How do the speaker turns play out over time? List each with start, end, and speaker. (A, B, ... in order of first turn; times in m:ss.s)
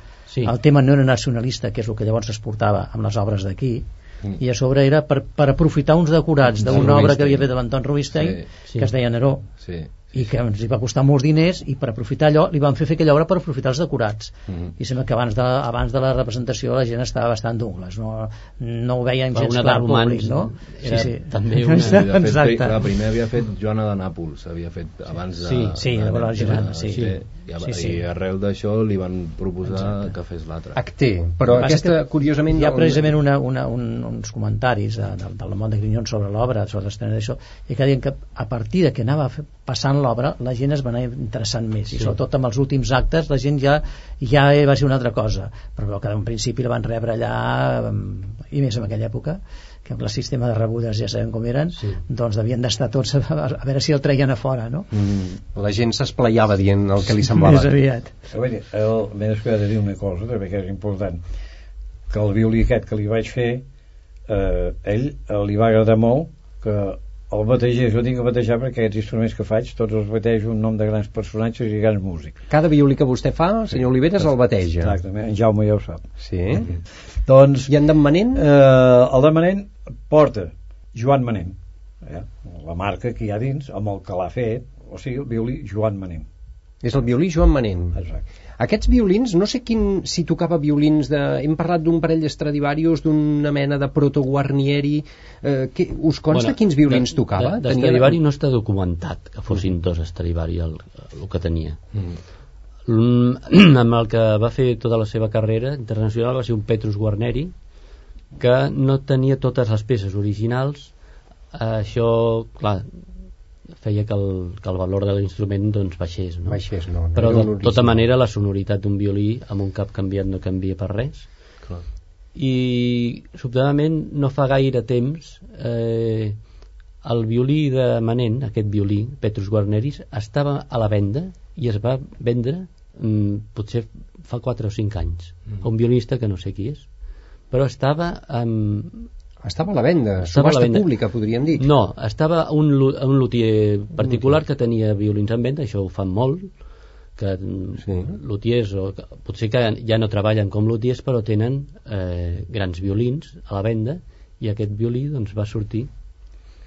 0:00.3-0:00.6 A
0:00.4-0:03.9 B
0:04.4-0:09.5 B
0:06.5-0:07.5 C
0:06.7-0:07.2 A
0:08.1-0:08.5 C
0:09.6-0:10.2 C
0:10.1-0:22.9 B
0:19.3-0:22.1 A
0:21.7-0:30.8 C
0:25.4-0:25.8 A
0:25.8-0:28.0 B
0:26.4-0:27.2 A
0:30.8-0:33.1 D
0:31.5-0:54.9 B
0:51.8-0:52.0 A
0:54.9-0:55.4 C
0:55.6-0:57.7 D
0:57.3-0:58.1 B
0:58.3-1:01.2 E
1:02.1-1:03.6 E
1:04.3-1:12.4 E
1:12.5-1:15.0 D
1:14.2-1:16.1 E
1:16.2-1:16.7 D
1:17.3-1:17.7 E
1:17.7-1:18.5 D
1:18.4-1:26.3 E
1:26.8-1:28.0 D
1:27.9-1:28.2 E
1:28.6-1:38.2 D
1:36.3-1:41.8 A
1:42.9-1:47.5 A
1:48.4-1:50.9 A
1:51.5-1:52.9 A
1:53.8-1:56.6 A
1:56.5-1:58.0 D
1:57.2-2:01.3 A
2:02.4-2:06.4 A
2:07.0-2:16.9 A
2:17.5-2:19.1 A
2:19.4-2:21.7 D
2:20.3-2:20.9 A
2:21.6-2:26.5 A
2:27.2-2:35.9 A
2:27.8-2:28.2 D